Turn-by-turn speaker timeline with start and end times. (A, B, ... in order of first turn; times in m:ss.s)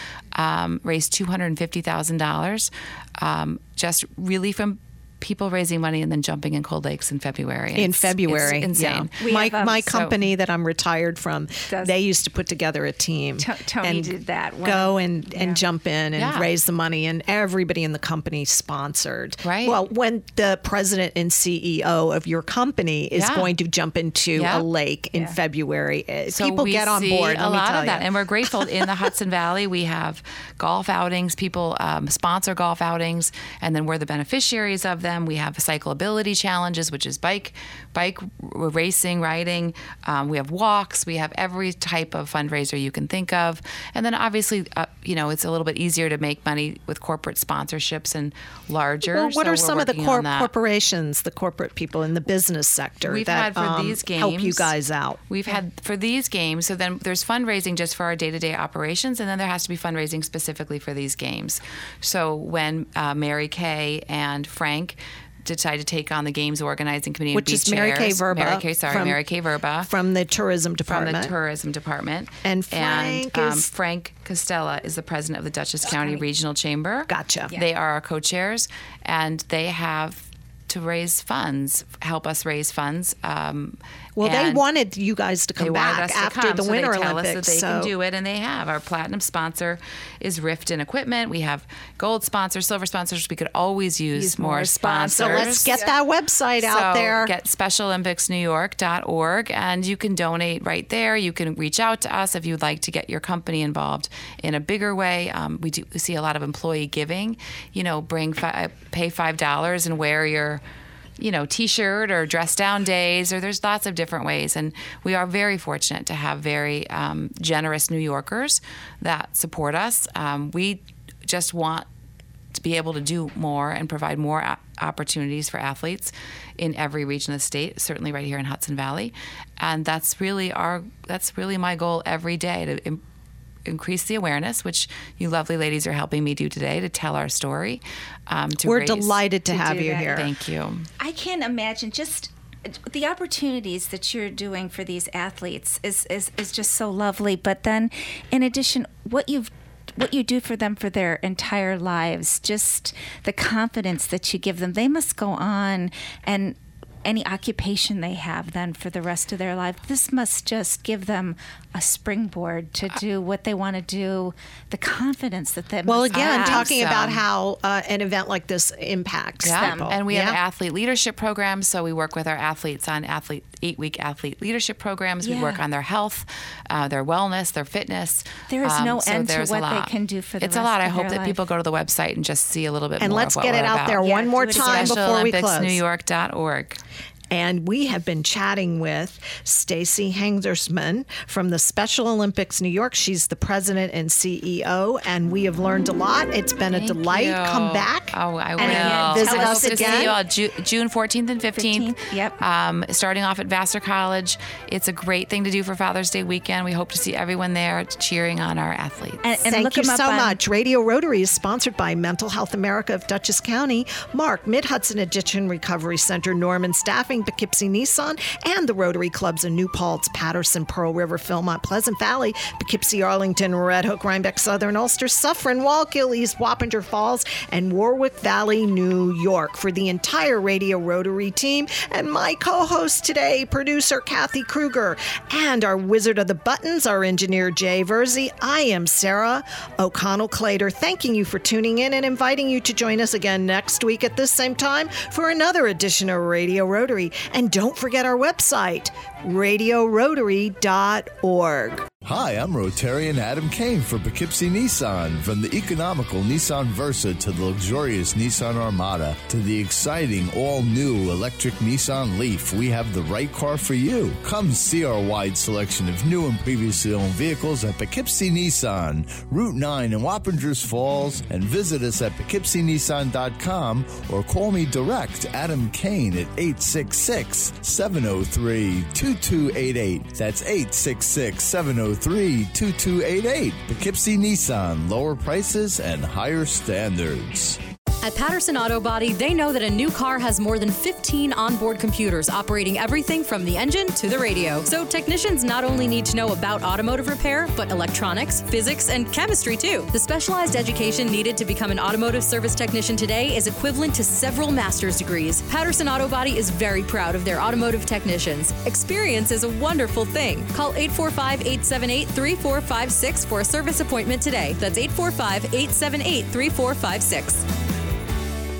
0:00.3-0:09.1 A
0:07.8-0:28.9 B
0:09.2-0:10.0 C
0:09.9-0:10.1 A
0:11.7-0:11.9 C
0:13.4-0:15.6 C
0:16.2-0:16.5 A
0:19.4-0:19.8 A
0:23.1-0:23.5 A
0:24.3-0:24.6 A
0:26.3-0:50.5 A
0:49.0-0:55.2 B
0:53.0-0:54.7 A
0:55.3-1:09.9 A
1:07.3-1:09.2 B
1:09.8-1:11.3 B
1:10.9-1:24.6 A
1:12.4-1:13.7 B
1:15.9-1:16.2 C
1:17.1-1:17.5 B
1:24.2-1:27.9 B
1:25.6-1:35.7 A
1:34.1-1:35.9 C
1:35.0-1:37.3 B
1:36.6-1:50.6 A
1:51.2-2:01.9 A
2:02.5-2:13.0 A
2:13.6-2:19.2 A
2:18.6-2:20.3 B
2:19.5-2:20.2 C
2:20.1-2:20.9 A
2:21.0-2:46.7 C
2:45.8-2:50.4 B
2:46.1-2:47.2 A
2:49.4-3:06.8 A
2:49.5-2:49.9 C
2:55.2-2:55.6 C
2:58.5-3:01.4 C
3:03.0-3:05.8 B
3:03.9-3:05.2 C
3:07.3-3:20.1 B
3:16.7-3:29.4 A
3:18.6-3:20.2 C
3:21.5-3:22.4 C
3:29.2-3:30.4 C
3:29.5-4:11.9 B
4:12.0-4:47.6 D
4:48.0-5:17.4 E